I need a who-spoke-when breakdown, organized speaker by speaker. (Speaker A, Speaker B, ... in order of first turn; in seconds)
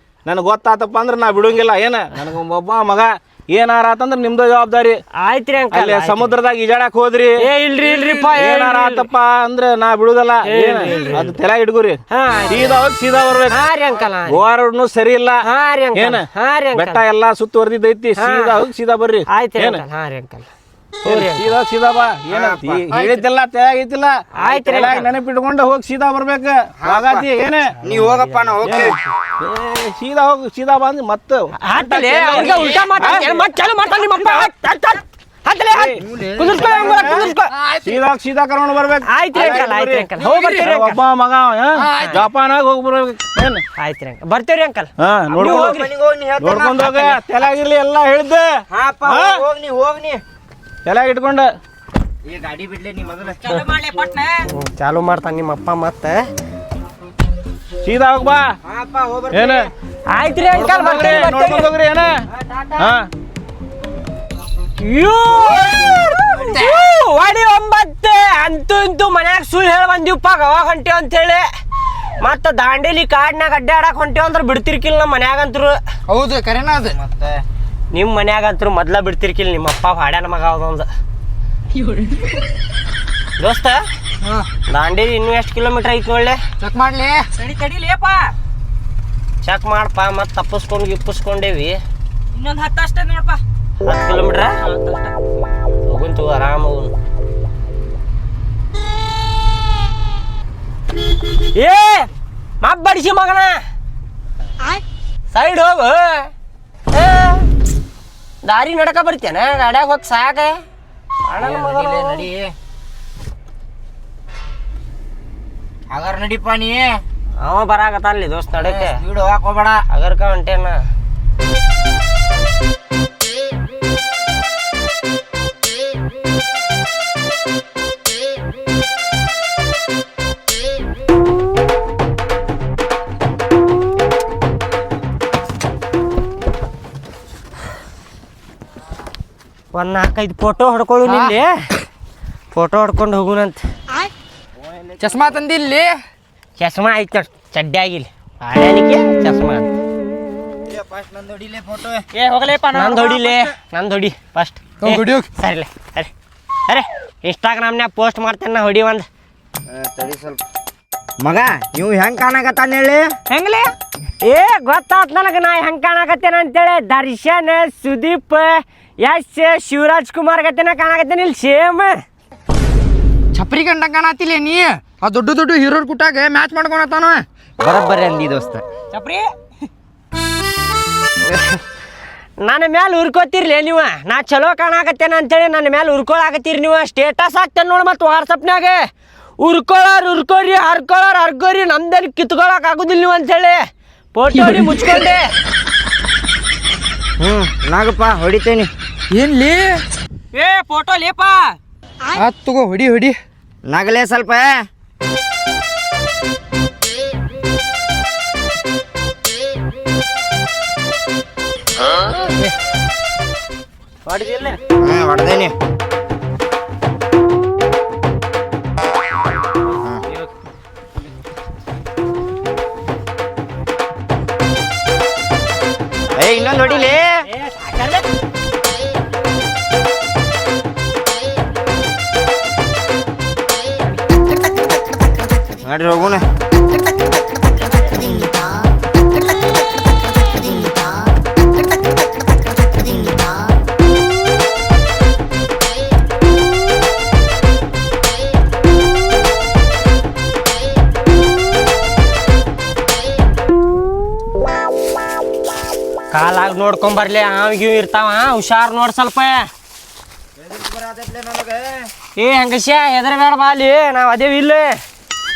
Speaker A: 0.3-5.0, 5.7-7.3, 8.3-13.6, 14.3-15.4, 15.9-19.8, 21.0-27.8, 28.6-33.3, 35.7-36.0, 37.8-43.6, 45.0-45.8, 46.4-49.4, 50.9-51.5, 57.8-58.4, 59.3-59.7, 60.5-62.2, 62.8-63.1
Speaker B: 5.2-6.4, 7.4-9.1, 10.4-11.3, 12.1-12.8, 13.5-14.4, 15.4-17.0, 18.2-18.6, 19.3-20.5, 21.0-21.5, 24.3-25.1, 27.9-28.9, 31.6-37.5, 39.0-41.0, 41.9-42.2, 43.8-45.9, 46.8-47.2, 54.5-56.2, 60.1-61.7, 64.8-71.5, 72.2-75.8, 77.9-80.9, 83.4-83.8, 84.7-86.4, 89.4-91.8, 93.8-94.5, 95.8-96.9, 101.5-102.1, 102.6-103.6, 105.3-106.3, 106.9-107.5, 108.4-110.6, 111.3-112.3, 117.4-119.0, 119.9-120.9, 139.7-141.8, 142.5-143.7, 146.6-149.7, 152.7-156.1, 156.7-159.1, 164.2-172.0, 181.2-181.6, 182.4-188.9, 189.4-195.3, 214.1-214.6, 227.3-228.1, 256.1-259.5, 262.1-264.8
Speaker C: 22.3-23.2, 26.8-27.3, 27.8-28.9, 36.0-37.1, 45.4-47.0, 48.7-50.2, 52.2-53.4, 58.6-59.7, 76.8-77.4, 111.4-112.5, 115.9-117.0, 118.6-119.8, 144.6-145.2, 150.7-152.1, 159.7-160.4, 161.2-163.1, 177.6-178.6, 197.2-198.7, 203.7-204.6, 214.8-215.6, 226.1-227.2, 235.6-236.2, 260.4-261.9
Speaker D: 31.8-32.8, 53.4-54.5, 87.3-88.3, 92.3-93.4, 94.6-95.2, 152.1-153.5, 163.3-163.7, 178.9-179.3, 200.3-201.5
Speaker E: 37.5-38.0, 40.3-40.5, 41.8-42.2, 76.1-76.9, 86.6-87.3, 141.1-141.3, 145.0-146.0, 154.8-155.3, 173.3-177.2, 194.3-194.9, 199.1-199.8, 202.1-203.2